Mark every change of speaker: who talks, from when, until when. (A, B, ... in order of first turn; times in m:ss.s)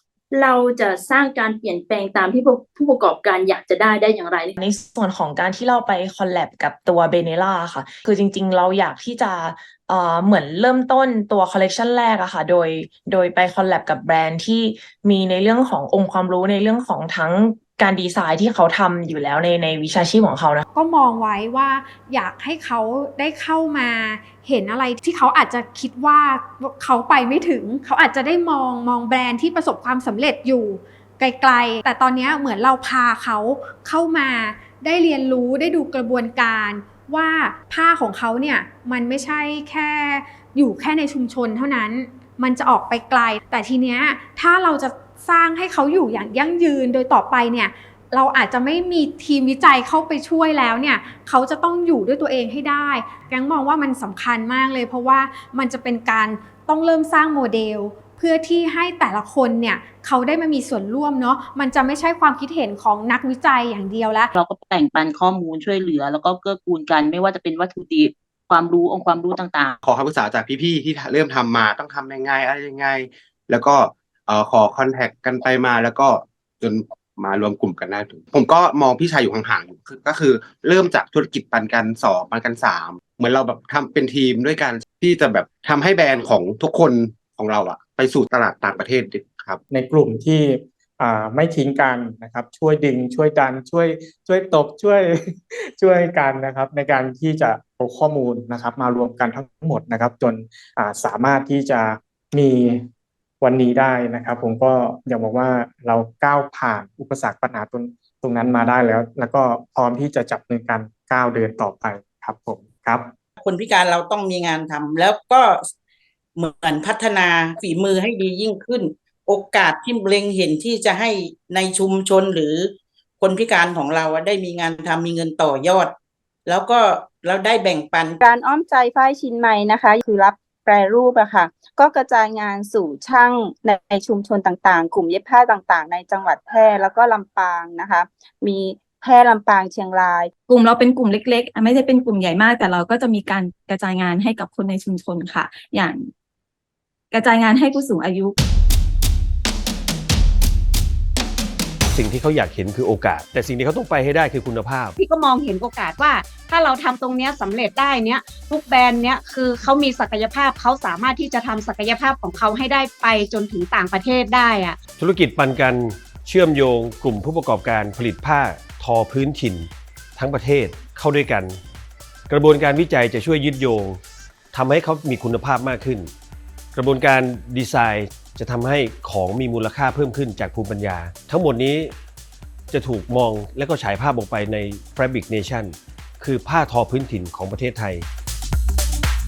0:00.3-0:04.5 A
0:04.6-0:20.6 B
0:20.7-1:04.3 C
1:04.3-1:09.8 D
1:09.8-1:29.6 E
1:29.7-1:35.2 F
1:35.8-1:42.8 F
1:43.4-1:53.1 F
1:53.4-1:55.6 G
1:56.4-2:08.2 G
2:08.2-2:20.3 H
2:20.5-2:26.1 I
2:27.1-2:28.3 I
2:31.9-2:35.0 J
2:35.0-2:44.8 K
2:45.0-2:51.6 J
2:52.3-2:54.0 J
2:54.5-2:56.1 J
2:56.7-3:01.9 J
3:02.7-3:08.0 J